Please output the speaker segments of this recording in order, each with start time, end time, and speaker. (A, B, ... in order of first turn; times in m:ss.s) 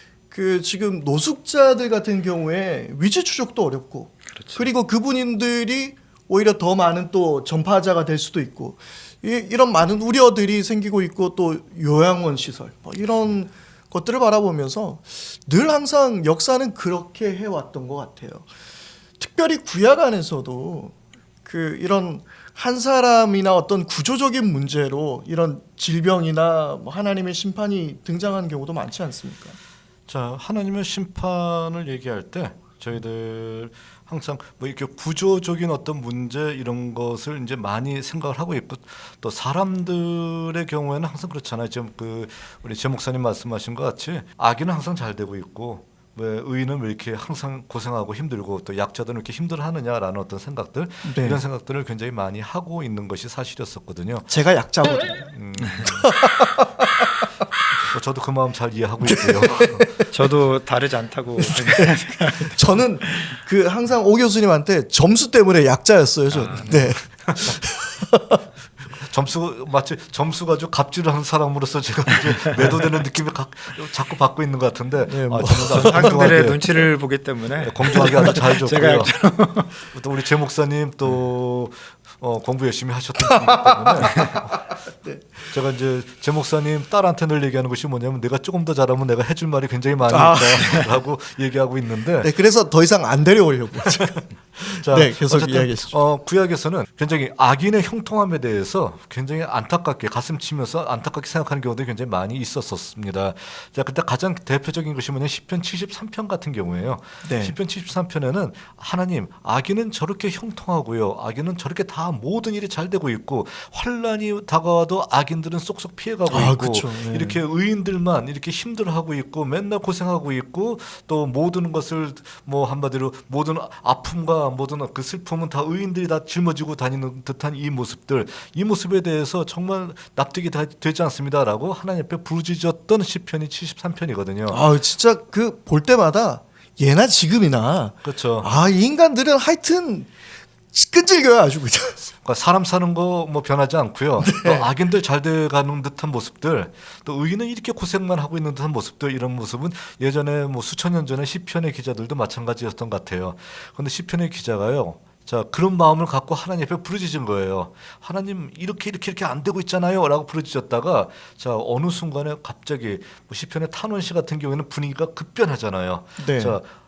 0:00.3-0:18.5 A
0:04.3-0:04.7 B
0:19.2-0:29.6 A
0:30.1-0:54.3 C
0:51.0-0:51.4 A
0:54.3-0:57.1 A
0:55.2-0:56.1 C
0:55.6-0:55.9 B
0:57.9-1:00.0 C
0:59.0-1:00.1 A
1:00.1-1:02.6 B
1:01.4-1:08.4 A
1:06.3-1:06.8 B
1:08.9-1:16.6 C
1:15.1-1:16.2 A
1:15.5-1:19.8 B
1:17.6-1:19.2 C
1:17.9-1:18.4 A
1:19.8-1:24.6 C
1:23.2-1:25.5 A
1:25.5-1:32.3 C
1:30.1-1:31.0 A
1:32.2-1:36.0 A
1:34.6-2:14.6 C
1:47.2-1:47.6 A
1:56.3-1:57.4 A
2:14.5-2:20.1 A
2:18.0-2:18.5 C
2:20.7-2:22.0 A
2:22.2-2:46.7 C
2:24.2-2:24.7 A
2:46.2-2:46.6 A